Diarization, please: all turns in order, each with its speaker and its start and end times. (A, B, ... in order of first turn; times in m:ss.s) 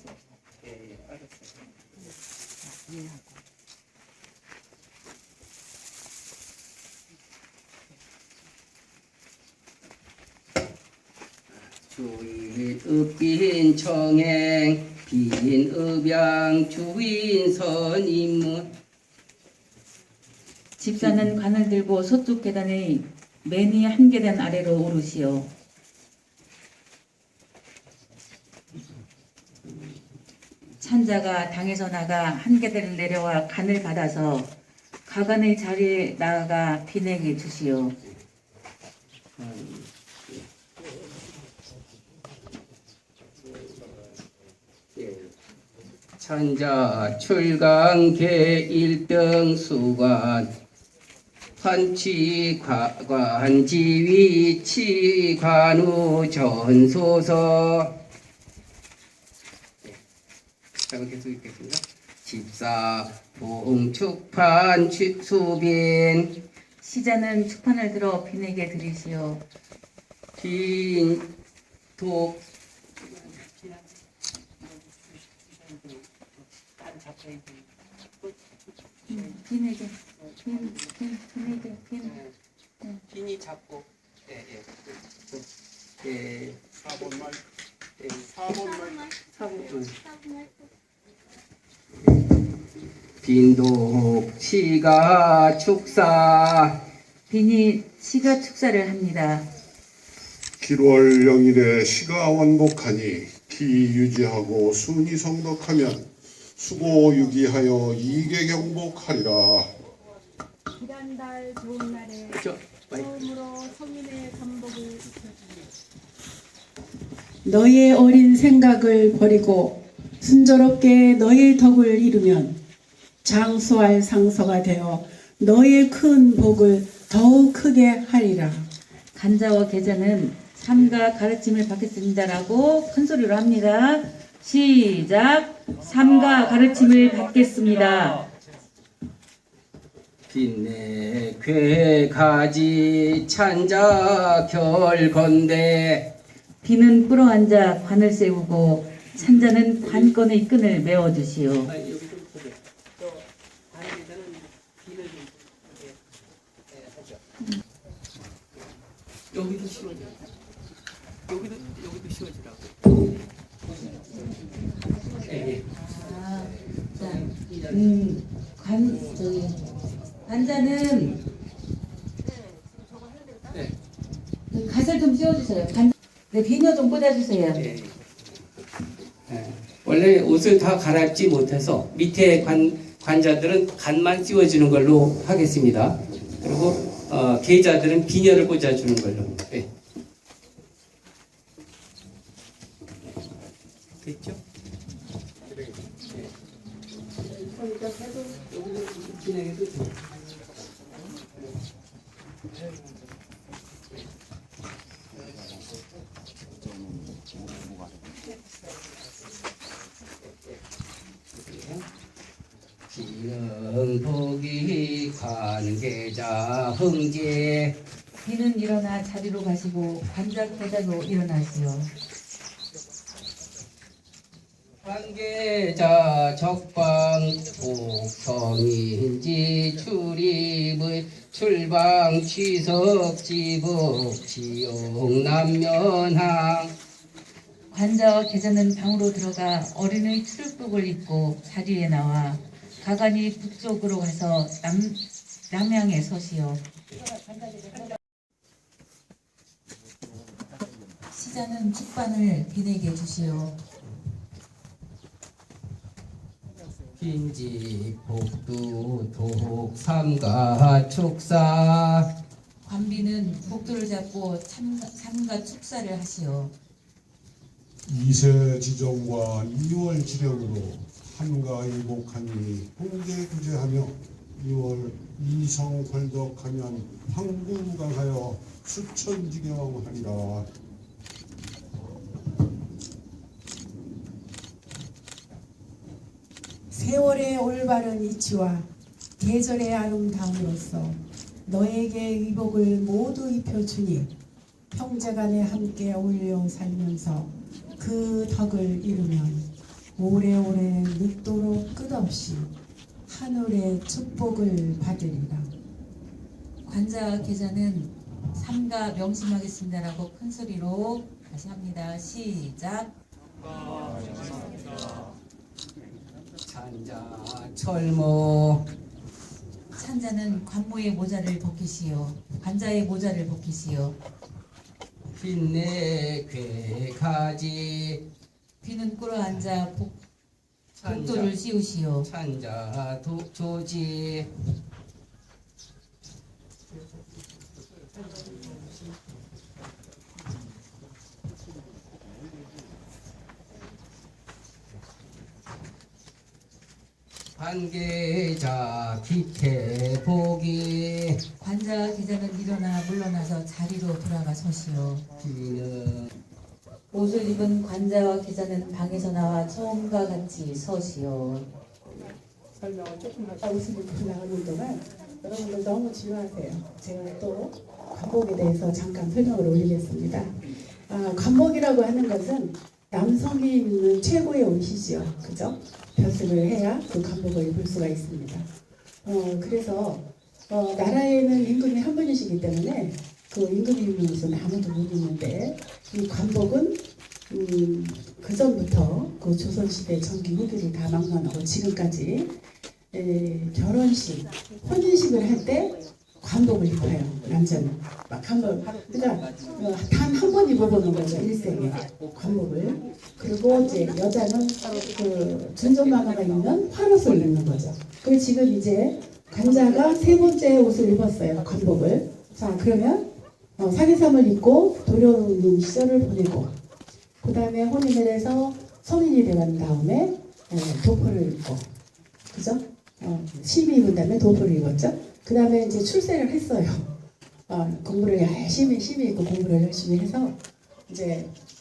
0:00.6-0:01.2 A
0:11.8-0:18.8 A
0:20.8-0:25.5 B
0:30.8-0:34.5 B
0:35.0-0:38.0 B
0:39.4-0:40.4 A
0:43.5-0:44.0 A
0:44.9-0:45.3 A
0:46.2-0:50.5 A
0:51.6-0:57.9 A
1:00.9-1:06.4 A
1:06.8-1:09.4 B
1:10.4-1:11.3 A
1:12.0-1:12.4 A
1:13.3-1:13.8 A
1:15.3-1:16.0 A
1:16.8-1:17.6 A
1:19.1-1:22.2 B
1:23.1-1:25.4 A
1:26.0-1:26.6 A
1:26.8-1:27.4 C
1:28.0-1:28.4 A
1:28.4-1:29.1 C
1:29.3-1:30.0 A
1:33.2-1:36.8 A
1:37.3-1:39.5 B
1:40.6-1:49.7 C
1:50.8-1:52.4 D
1:52.3-1:53.3 A
1:53.2-1:55.1 D
1:57.4-2:02.6 E
2:03.2-2:08.7 E
2:09.1-2:18.3 B
2:20.3-2:26.1 A
2:26.6-2:31.7 B
2:31.6-2:32.6 A
2:33.7-2:35.9 A
2:39.3-2:40.2 A
2:41.3-2:42.6 A
2:45.2-2:45.6 A
2:45.8-2:49.7 B
2:46.9-2:47.8 A
2:50.2-2:51.2 B
2:54.5-2:57.6 B
2:57.6-2:57.9 A
2:59.3-3:09.7 A
3:14.0-3:14.4 A
3:15.6-3:16.3 A
3:17.3-3:20.0 A
3:31.3-3:31.8 A
3:32.9-3:37.8 A
3:38.2-3:41.9 B
3:44.8-3:56.7 A
3:57.7-4:06.6 B
4:11.1-4:13.6 B
4:17.0-4:22.1 A
4:22.6-4:26.5 B
4:27.9-4:40.5 C
4:46.7-4:54.1 E
4:54.7-5:02.5 E
5:03.1-5:05.5 E
5:06.6-5:12.9 B
5:13.9-5:14.4 A
5:16.4-5:18.7 A
5:19.8-5:24.0 B
5:25.1-5:28.0 A
5:28.6-5:30.0 B
5:30.7-5:31.4 A
5:30.8-5:32.1 B
5:32.0-5:34.3 A
5:47.3-5:51.2 A
5:51.4-5:55.0 B
5:55.2-5:56.1 A
5:56.9-6:01.5 B
6:02.7-6:18.5 E
6:19.0-6:32.4 E
6:32.9-6:56.6 E
6:57.2-7:01.7 E
7:02.3-7:06.9 E
7:07.5-7:11.3 E